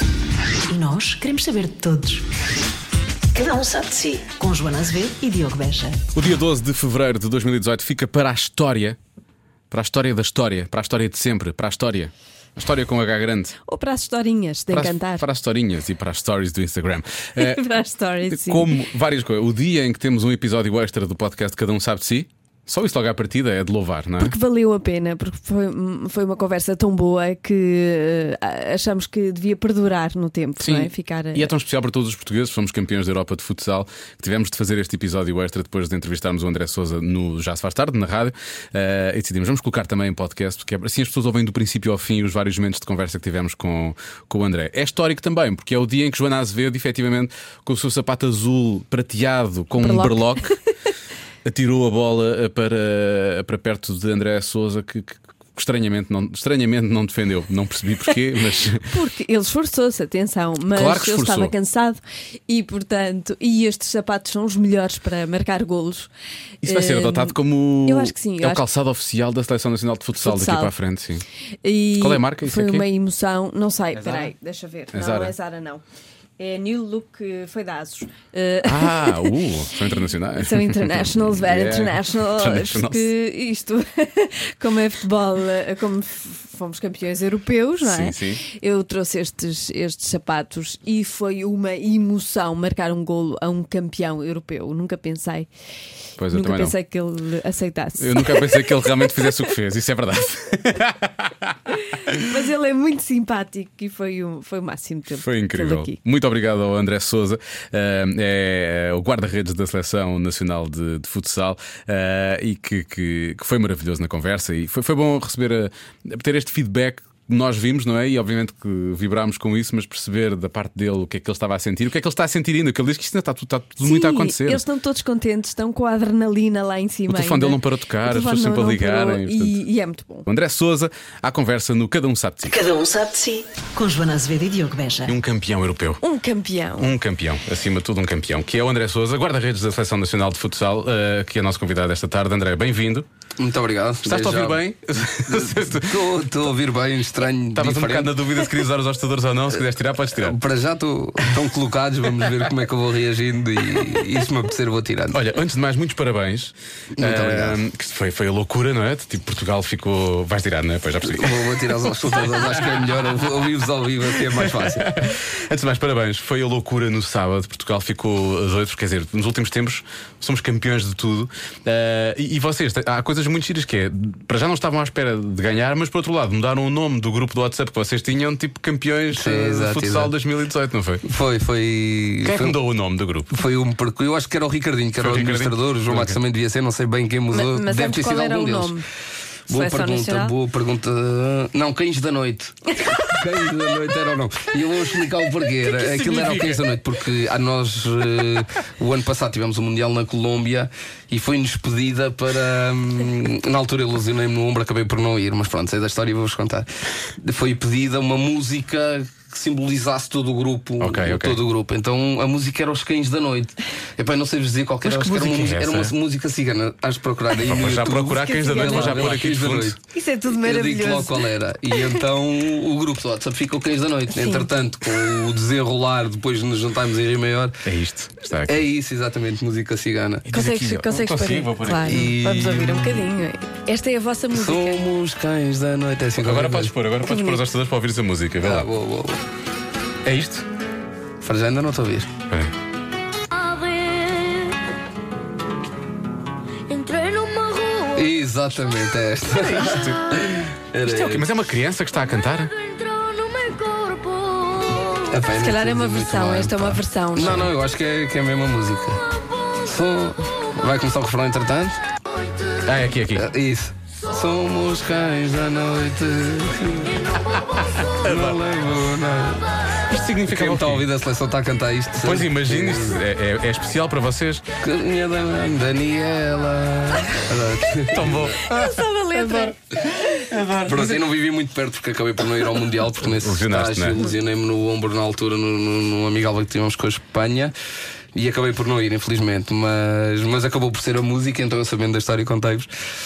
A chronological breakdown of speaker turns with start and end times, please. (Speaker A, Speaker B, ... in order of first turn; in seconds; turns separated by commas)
Speaker A: 0.7-2.2, Speaker A: 3.3-6.0, Speaker B: 6.1-9.0, Speaker B: 9.7-13.5, Speaker C: 13.7-15.2, Speaker B: 14.7-17.6, Speaker C: 17.4-18.7, Speaker B: 18.3-24.3, Speaker C: 24.2-31.5, Speaker B: 30.6-50.5, Speaker C: 49.8-50.7, Speaker B: 51.5-58.9, Speaker C: 58.9-66.1, Speaker B: 60.7-61.5, Speaker C: 66.6-68.6, Speaker B: 66.6-71.2, Speaker C: 70.1-70.7, Speaker C: 71.6-75.8, Speaker B: 72.0-72.9, Speaker B: 74.0-74.3, Speaker B: 74.9-75.3, Speaker C: 76.4-79.3, Speaker B: 78.6-83.1, Speaker C: 80.4-95.5, Speaker B: 87.8-88.4, Speaker B: 96.2-96.8, Speaker C: 96.3-99.5, Speaker B: 98.0-101.5, Speaker C: 102.1-106.0, Speaker B: 105.2-124.6, Speaker C: 123.8-130.3, Speaker B: 127.1-129.6, Speaker B: 130.3-132.6, Speaker A: 132.5-135.2, Speaker B: 135.1-136.0, Speaker C: 136.0-136.9, Speaker B: 136.8-143.1, Speaker D: 143.4-144.6, Speaker B: 144.0-146.1, Speaker D: 145.3-148.4, Speaker B: 147.5-150.4, Speaker D: 149.6-155.2, Speaker B: 155.1-162.9, Speaker D: 157.0-157.6, Speaker D: 161.1-164.9, Speaker B: 164.4-181.0, Speaker D: 179.1-180.1, Speaker D: 181.1-182.6, Speaker B: 182.2-183.4, Speaker D: 183.3-188.8, Speaker B: 185.0-186.2, Speaker C: 187.3-188.8, Speaker D: 189.5-206.7, Speaker C: 189.5-190.3, Speaker C: 192.8-193.6, Speaker B: 195.6-196.7, Speaker D: 207.2-219.8, Speaker B: 210.8-211.4, Speaker B: 214.8-215.9, Speaker B: 217.4-219.8, Speaker C: 218.2-219.1, Speaker C: 219.9-222.0, Speaker D: 220.4-227.6, Speaker C: 224.1-225.1, Speaker B: 227.6-228.6, Speaker D: 228.5-230.3, Speaker B: 230.3-232.5, Speaker C: 230.3-234.8, Speaker D: 231.8-232.8, Speaker D: 234.3-236.8, Speaker B: 236.2-238.7, Speaker C: 237.0-237.4, Speaker D: 238.4-239.2, Speaker B: 240.1-240.4, Speaker D: 241.2-242.1, Speaker E: 243.4-244.5, Speaker E: 246.7-247.9, Speaker D: 247.9-251.3, Speaker B: 249.4-250.2, Speaker B: 250.8-252.5, Speaker E: 252.8-254.7, Speaker D: 255.1-259.0, Speaker C: 255.3-257.5, Speaker B: 257.2-257.5, Speaker D: 259.6-261.8, Speaker B: 262.6-263.2, Speaker D: 263.1-267.0, Speaker B: 267.3-268.4, Speaker D: 268.0-269.5, Speaker B: 269.9-270.9, Speaker D: 270.3-273.0, Speaker B: 272.0-274.4, Speaker D: 274.6-278.1, Speaker B: 277.9-281.0, Speaker C: 278.4-279.6, Speaker D: 280.6-287.5, Speaker B: 283.1-284.0, Speaker D: 288.1-292.7